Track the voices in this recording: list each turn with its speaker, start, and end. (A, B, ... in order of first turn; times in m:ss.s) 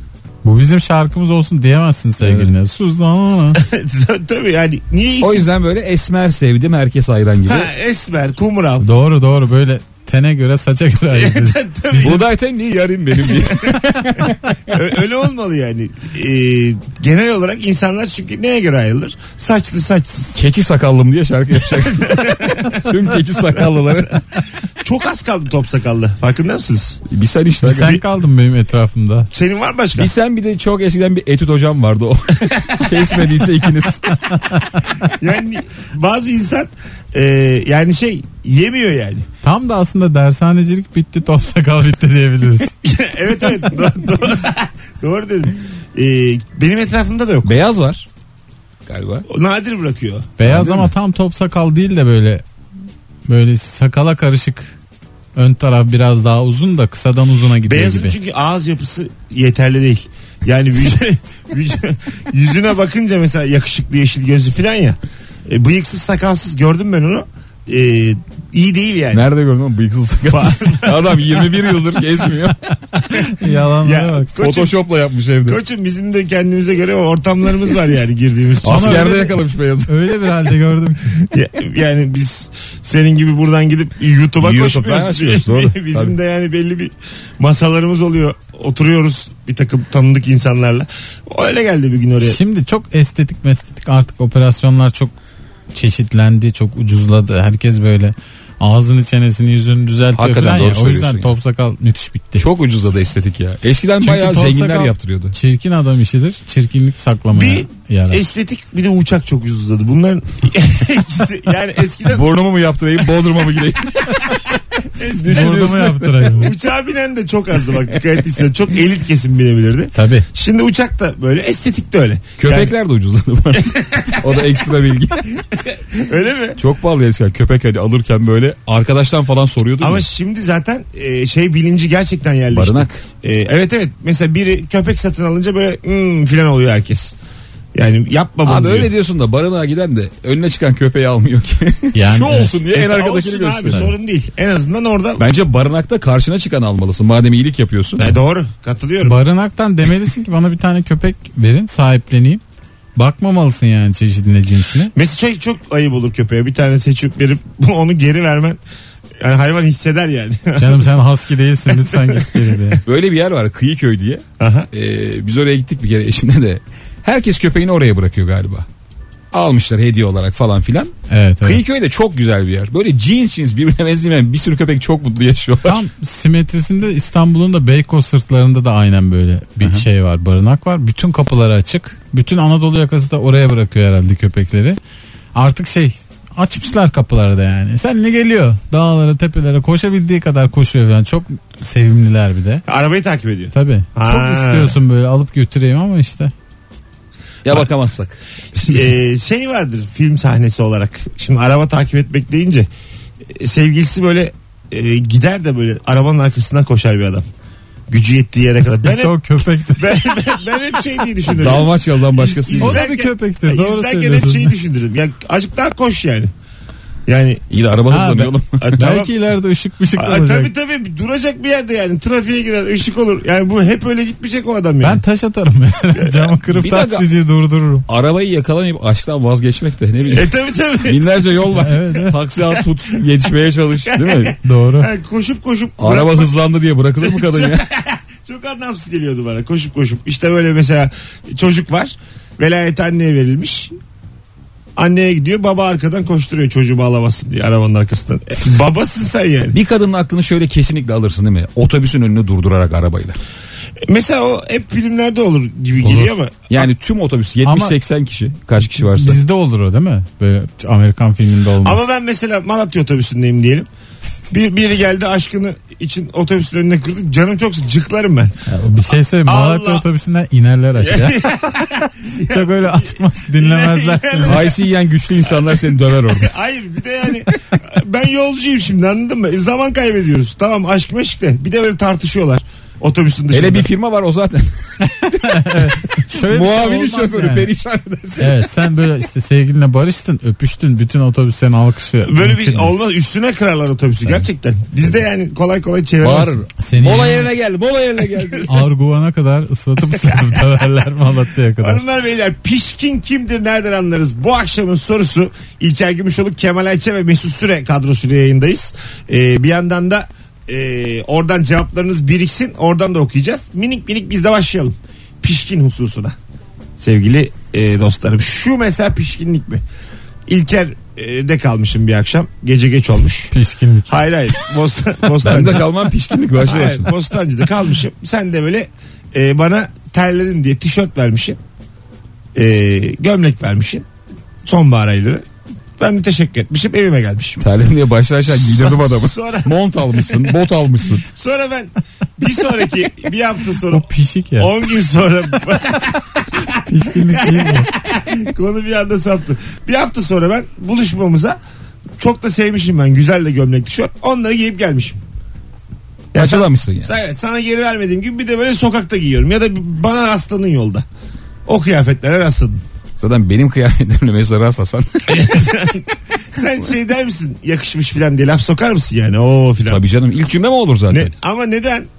0:00.4-0:03.6 A
0:02.2-0:02.5 B
0:03.5-0:05.5 C
0:05.2-0:07.7 B
0:07.4-0:08.9 C
0:08.8-0:12.1 A
0:11.1-0:12.3 C
0:11.9-0:14.3 B
0:13.3-0:13.8 C
0:13.8-0:14.2 A
0:14.7-0:20.4 C
0:20.3-0:24.2 B
0:21.9-0:22.7 C
0:24.8-0:27.0 C
0:27.1-0:28.0 B
0:27.6-0:29.3 A
0:29.3-0:30.1 C
0:30.0-0:34.2 B
0:32.5-0:33.4 C
0:35.0-0:39.3 C
0:39.4-0:42.7 A
0:42.8-0:47.6 C
0:47.4-0:48.0 B
0:48.9-0:49.2 B
0:49.3-0:50.3 C
0:50.4-0:52.4 A
0:50.4-0:50.9 B
0:53.3-0:54.7 A
0:55.4-0:58.2 A
0:57.6-1:09.2 C
1:09.1-1:12.7 B
1:10.3-1:11.5 C
1:13.1-1:14.4 A
1:13.8-1:14.7 C
1:14.4-1:15.6 B
1:15.4-1:19.2 C
1:18.6-1:20.1 B
1:18.6-1:21.2 A
1:21.2-1:32.4 C
1:24.4-1:26.1 B
1:32.2-1:35.1 A
1:35.7-1:42.4 A
1:40.2-1:41.3 B
1:42.4-1:45.3 B
1:44.0-1:48.3 A
1:47.3-1:52.3 C
1:52.1-1:54.3 B
1:55.0-1:56.4 B
1:55.0-1:55.7 C
1:55.2-1:56.5 A
1:56.3-2:02.7 C
1:59.9-2:00.2 A
2:02.4-2:05.4 B
2:03.5-2:04.4 C
2:05.5-2:06.6 C
2:06.6-2:10.0 B
2:09.8-2:17.1 C
2:12.5-2:13.0 B
2:17.7-2:18.9 C
2:18.4-2:23.8 B
2:21.9-2:22.6 A
2:22.7-2:25.2 C
2:23.6-2:23.9 A
2:25.2-2:28.1 B
2:28.0-2:29.2 C
2:29.0-2:32.4 A
2:33.0-2:34.9 A
2:34.9-2:38.6 C
2:39.2-2:40.9 C
2:40.6-2:42.8 A
2:41.7-2:42.8 C
2:42.8-2:48.6 B
2:44.4-2:44.7 C
2:49.3-2:55.8 B
2:51.1-2:51.6 A
2:55.6-3:04.8 A
3:05.3-3:12.6 A
3:12.6-3:14.8 C
3:13.5-3:16.3 A
3:17.4-3:18.8 B
3:18.5-3:22.7 C
3:23.3-3:27.2 C
3:27.9-3:29.2 C
3:28.8-3:30.2 A
3:29.8-3:36.3 C
3:31.3-3:32.8 B
3:32.6-3:34.5 A
3:37.1-3:37.4 C
3:37.5-3:38.7 B
3:37.9-3:40.5 A
3:38.6-3:39.1 C
3:40.0-3:45.0 C
3:44.8-3:47.8 A
3:46.0-3:46.3 C
3:46.5-3:47.0 B
3:47.9-3:54.4 B
3:50.1-3:51.0 C
3:51.5-3:52.2 A
3:52.4-3:52.6 C
3:53.9-3:56.4 C
3:54.4-3:54.9 A
3:55.8-3:57.6 B
3:56.9-4:03.7 C
4:04.8-4:09.6 C
4:09.5-4:13.2 B
4:13.8-4:16.6 C
4:15.8-4:16.1 A
4:16.5-4:19.2 B
4:17.4-4:17.7 A
4:18.6-4:21.8 A
4:21.6-4:23.7 C
4:24.3-4:28.3 C
4:28.5-4:31.4 A
4:29.2-4:29.8 C
4:30.8-4:34.6 C
4:32.3-4:34.4 A
4:34.2-4:36.3 B
4:35.3-4:43.7 C
4:43.3-4:48.4 B
4:44.8-4:47.5 A
4:48.2-4:52.7 A
4:52.0-4:56.4 C
4:56.0-4:58.5 B
4:56.6-4:57.3 A
4:58.5-5:01.8 A
5:00.0-5:00.6 C
5:01.6-5:16.2 C
5:16.8-5:19.6 C
5:20.3-5:23.3 C
5:23.3-5:24.0 A
5:23.9-5:25.7 C
5:25.2-5:26.9 B
5:26.4-5:31.4 C
5:32.3-5:33.8 C
5:34.4-5:35.2 C
5:35.8-5:37.4 C
5:37.4-5:41.0 B
5:38.3-5:40.3 C
5:41.0-5:43.9 C
5:43.7-5:44.5 A
5:44.4-5:51.4 C
5:46.5-5:47.7 A
5:52.0-5:55.0 C
5:56.1-6:00.8 C
5:56.1-5:56.9 B
6:01.4-6:02.6 C
6:03.0-6:05.4 B
6:05.1-6:09.8 C
6:09.7-6:11.1 B
6:10.9-6:11.9 C